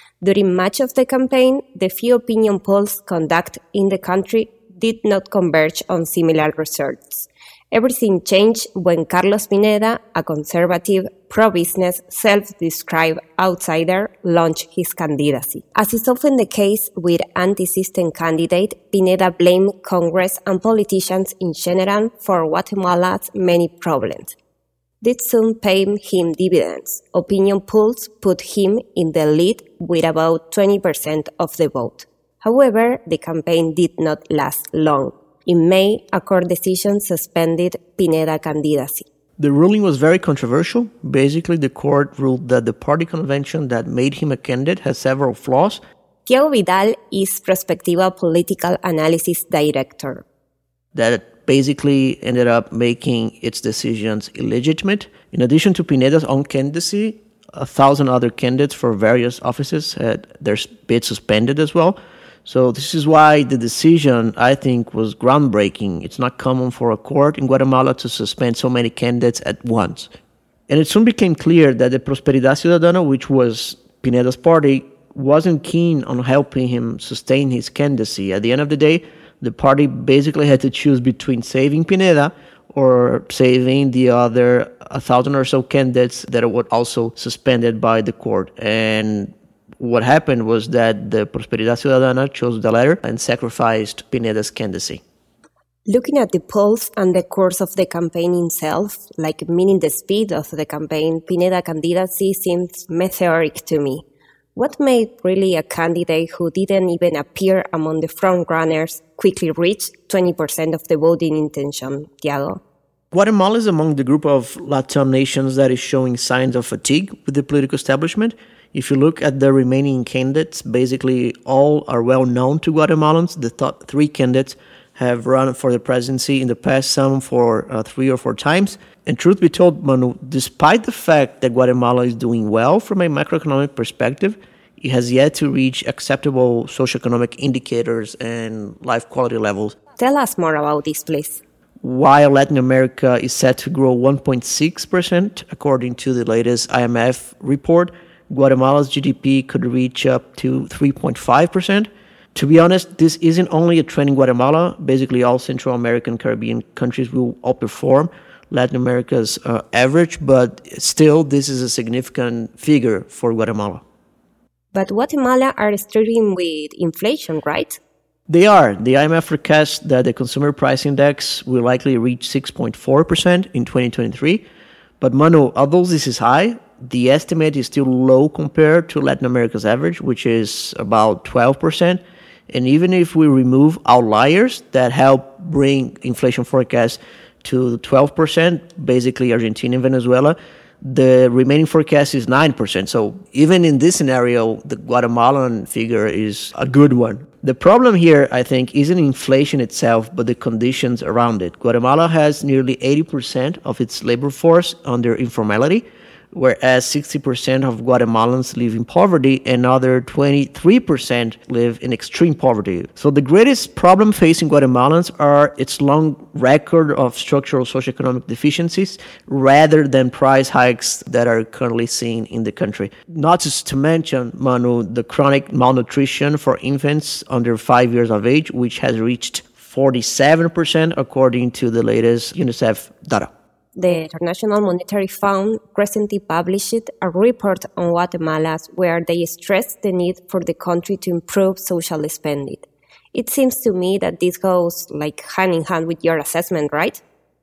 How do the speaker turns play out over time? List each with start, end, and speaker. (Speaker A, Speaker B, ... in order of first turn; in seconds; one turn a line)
Speaker A: 0.2-24.4
Speaker A: 25.0-39.1
Speaker B: 39.4-45.8
Speaker A: 46.3-50.2
Speaker B: 51.0-70.1
Speaker B: 70.7-95.0
Speaker A: 95.9-112.6
Speaker B: 113.1-139.8
Speaker A: 140.0-141.4
Speaker B: 141.8-163.8
Speaker A: 164.7-167.8
Speaker B: 168.3-174.4
Speaker B: 175.0-233.3
Speaker A: 233.8-247.0